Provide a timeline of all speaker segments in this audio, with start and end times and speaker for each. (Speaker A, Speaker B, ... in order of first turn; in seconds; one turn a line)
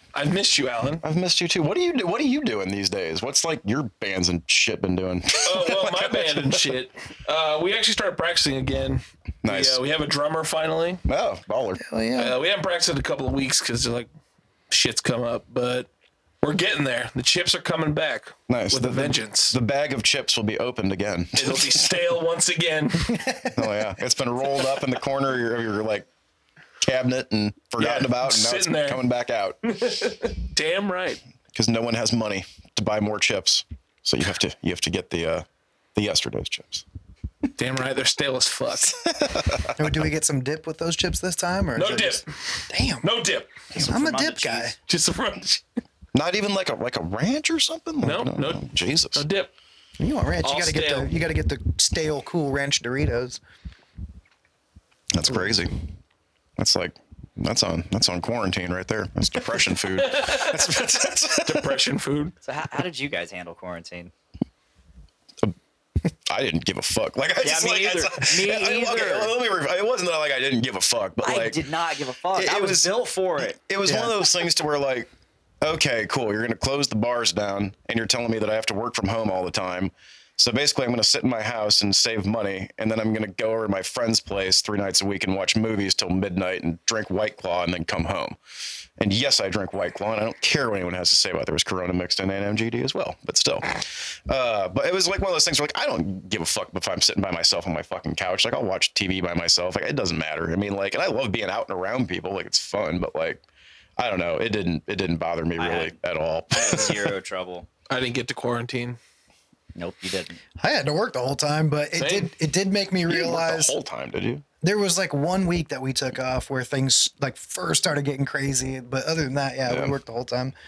Speaker A: 0.1-1.0
Speaker B: 1.0-6.6
Speaker A: 5.4-11.0
Speaker B: 9.4-9.8
Speaker B: 11.1-11.8
Speaker C: 11.8-12.4
Speaker A: 12.2-14.1
Speaker A: 14.7-15.9
Speaker A: 16.4-19.6
Speaker B: 18.5-21.9
Speaker A: 21.4-23.2
Speaker C: 23.1-23.8
Speaker B: 23.6-26.1
Speaker B: 26.8-29.6
Speaker A: 27.8-29.0
Speaker A: 29.6-31.2
Speaker B: 31.5-36.8
Speaker A: 37.6-39.0
Speaker B: 38.9-40.0
Speaker C: 39.8-43.1
Speaker A: 41.8-42.3
Speaker A: 43.0-43.5
Speaker D: 43.7-44.7
Speaker C: 43.7-44.8
Speaker A: 44.9-45.6
Speaker B: 46.1-49.3
Speaker A: 48.0-49.5
Speaker C: 50.0-53.4
Speaker A: 50.4-51.1
Speaker B: 55.1-55.8
Speaker B: 56.6-61.8
Speaker A: 59.9-60.8
Speaker A: 61.4-62.3
Speaker D: 62.4-64.1
Speaker B: 66.3-71.6
Speaker D: 67.4-69.3
Speaker D: 71.2-73.6
Speaker B: 72.3-75.1
Speaker C: 73.8-74.2
Speaker B: 75.6-88.4
Speaker B: 89.0-103.4
Speaker B: 104.0-107.1
Speaker D: 105.6-106.0
Speaker D: 106.5-107.7
Speaker A: 107.9-109.0
Speaker D: 109.8-110.4
Speaker C: 110.6-113.8
Speaker A: 112.0-112.3
Speaker B: 113.1-114.5
Speaker C: 114.6-120.5
Speaker B: 119.7-120.0